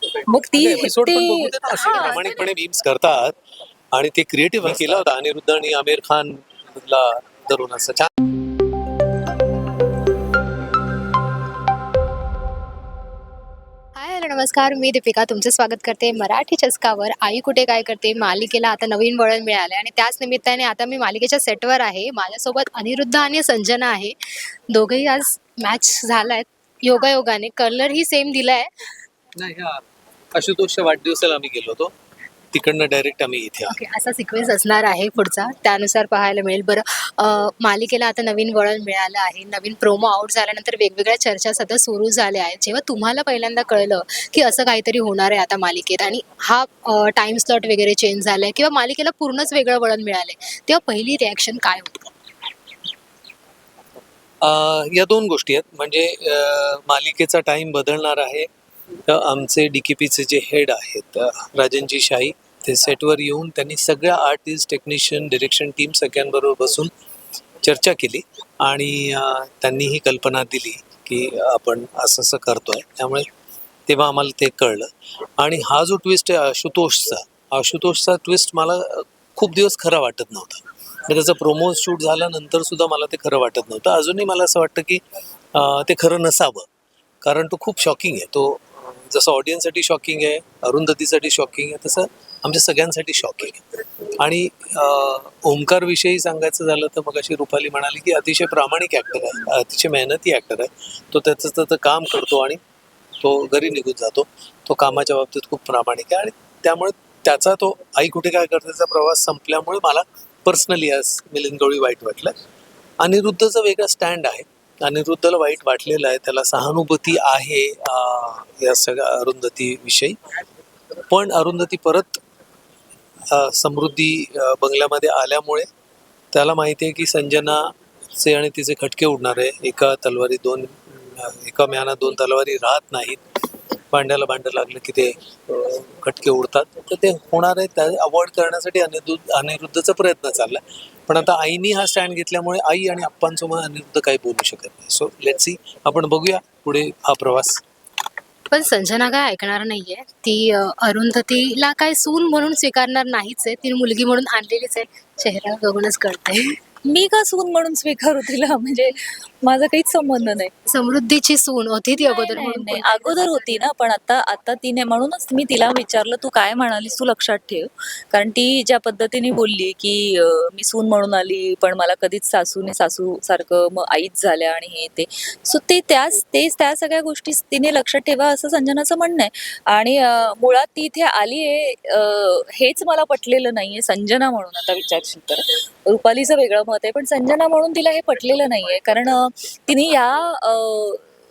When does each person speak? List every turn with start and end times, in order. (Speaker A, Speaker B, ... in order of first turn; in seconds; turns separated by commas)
Speaker A: 0.3-2.5, Speaker B: 0.5-3.4, Speaker B: 3.9-8.1, Speaker C: 14.0-24.2, Speaker C: 24.7-28.7, Speaker B: 29.4-29.8, Speaker B: 30.3-31.9, Speaker B: 32.5-33.8, Speaker C: 33.7-52.1, Speaker B: 54.4-58.5, Speaker B: 59.1-66.9, Speaker B: 67.6-73.3, Speaker B: 73.9-85.0, Speaker B: 85.5-86.7, Speaker B: 87.2-93.7, Speaker B: 94.2-102.6, Speaker B: 103.2-112.3, Speaker B: 113.0-120.2, Speaker B: 121.1-122.2, Speaker B: 123.3-125.7, Speaker B: 126.3-133.2, Speaker B: 133.9-147.6, Speaker C: 148.5-156.6, Speaker A: 156.9-160.5, Speaker C: 160.7-163.7, Speaker A: 162.0-191.1